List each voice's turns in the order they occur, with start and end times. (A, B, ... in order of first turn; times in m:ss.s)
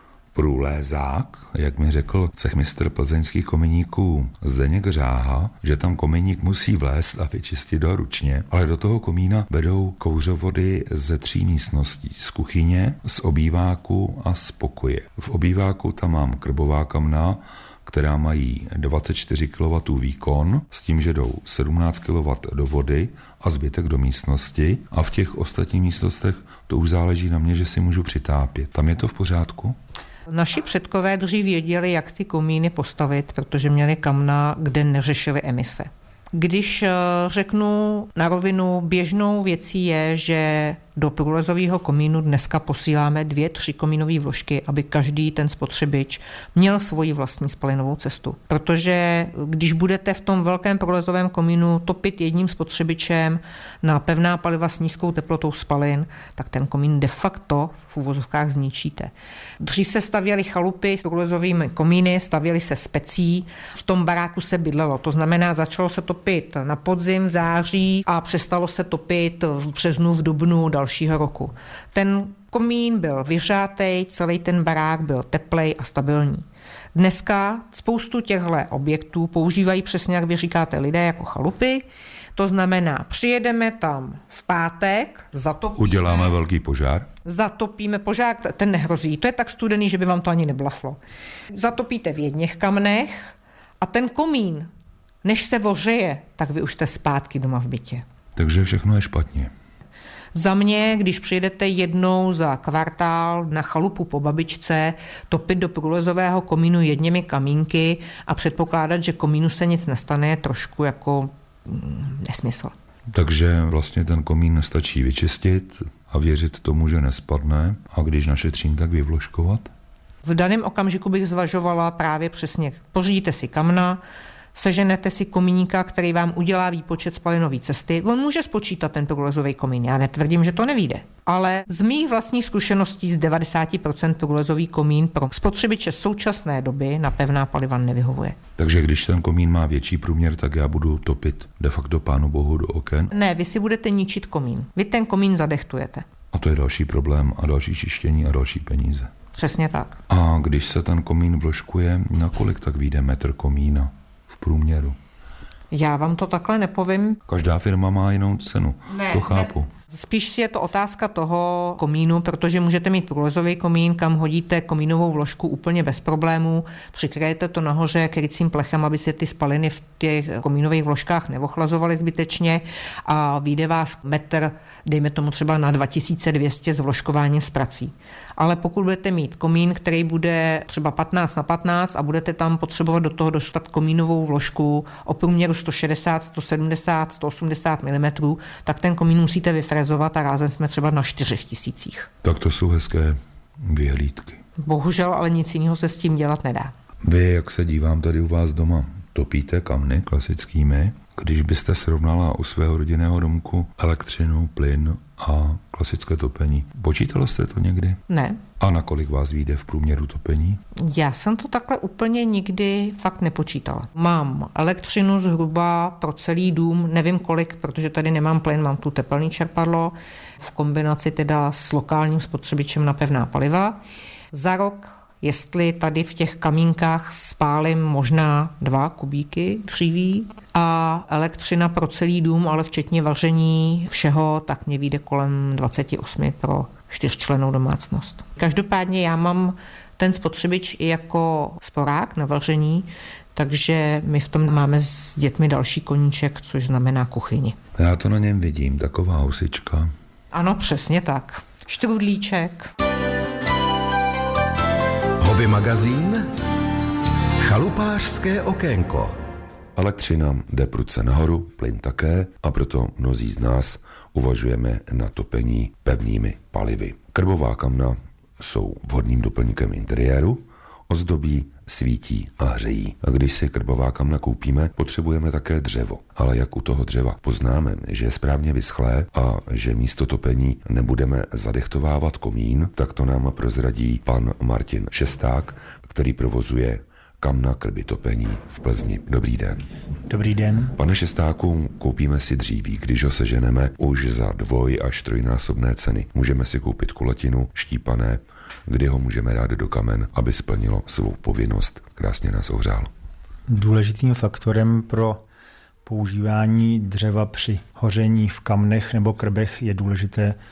0:00.3-0:29.8 A
0:30.3-1:26.3 B
1:25.8-1:27.1 A
1:27.2-1:31.0 B
1:31.5-1:34.7 B
1:35.2-1:38.0 B
1:38.4-1:39.5 A
1:40.3-1:52.7 B
1:53.1-1:59.7 A
2:00.2-2:04.0 B
2:04.5-2:18.4 B
2:18.6-2:23.1 A
2:23.1-2:26.0 B
2:26.3-2:29.1 A
2:29.4-2:30.0 B
2:30.1-2:35.0 A
2:35.7-2:37.2 B
2:37.3-2:39.7 A
2:38.9-3:12.1 B
3:12.2-3:14.4 A
3:14.6-3:16.7 B
3:17.0-3:28.0 A
3:28.1-3:28.4 B
3:28.6-3:30.6 A
3:30.8-3:43.8 B
3:44.3-4:07.6 B
4:07.8-4:09.9 A
4:10.3-4:12.7 B
4:15.2-4:16.3 C
4:17.4-4:19.2 C
4:19.8-4:49.6 A
4:50.1-4:50.8 D
4:50.8-5:02.9 A
5:03.5-5:05.2 D
5:05.8-5:10.4 D